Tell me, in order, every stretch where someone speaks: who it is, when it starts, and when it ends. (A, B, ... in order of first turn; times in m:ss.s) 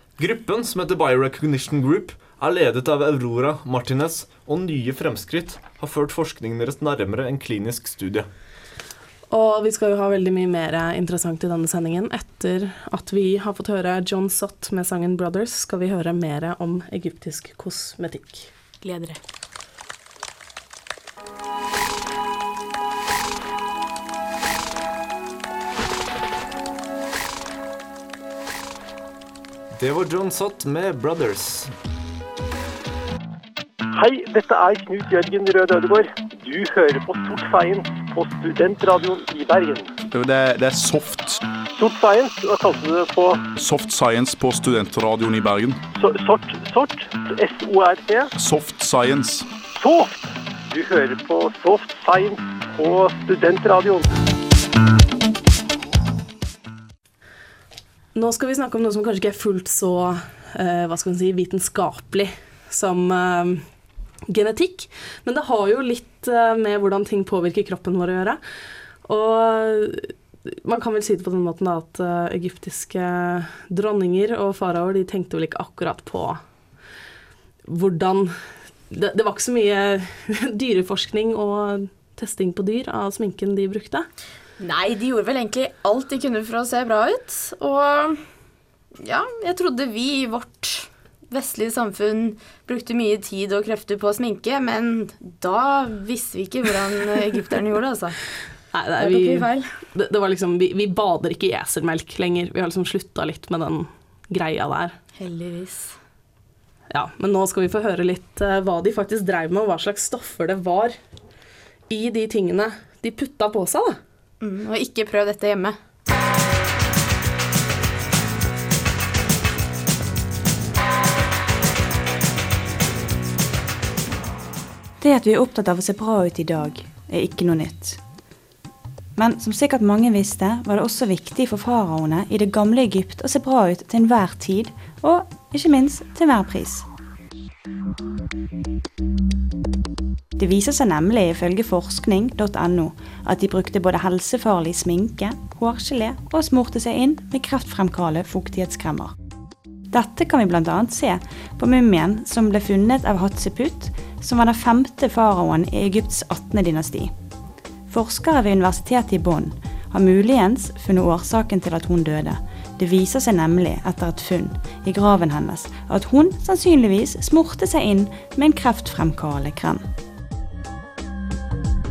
0:00.2-0:08.3 A
0:09.3-0:18.5 B
0:18.8-0:19.2 C
0:29.7-0:31.7 A
0:34.0-0:39.9 D
0:40.2-0:41.3 A
0:41.8-0:43.4 D
0:43.6-0:45.7 E
0:46.0-0:48.3 D
0:48.5-0:48.9 A
0:49.8-0:54.0 D
0:58.2-1:03.6 B
1:04.3-1:08.4 B
1:09.1-1:10.1 B
1:10.6-1:16.4 B
1:17.7-1:18.3 B
1:18.9-1:24.1 B
1:24.6-1:28.2 C
1:29.0-1:38.1 C
1:38.7-1:45.0 B
1:39.0-1:39.6 C
1:45.2-1:45.9 C
1:46.9-1:51.0 B
1:51.9-1:54.0 B
1:54.4-1:55.8 C
2:05.0-2:08.0 F
2:09.2-2:16.9 F
2:20.4-2:29.1 F
2:29.9-2:37.1 F
2:37.9-2:49.8 F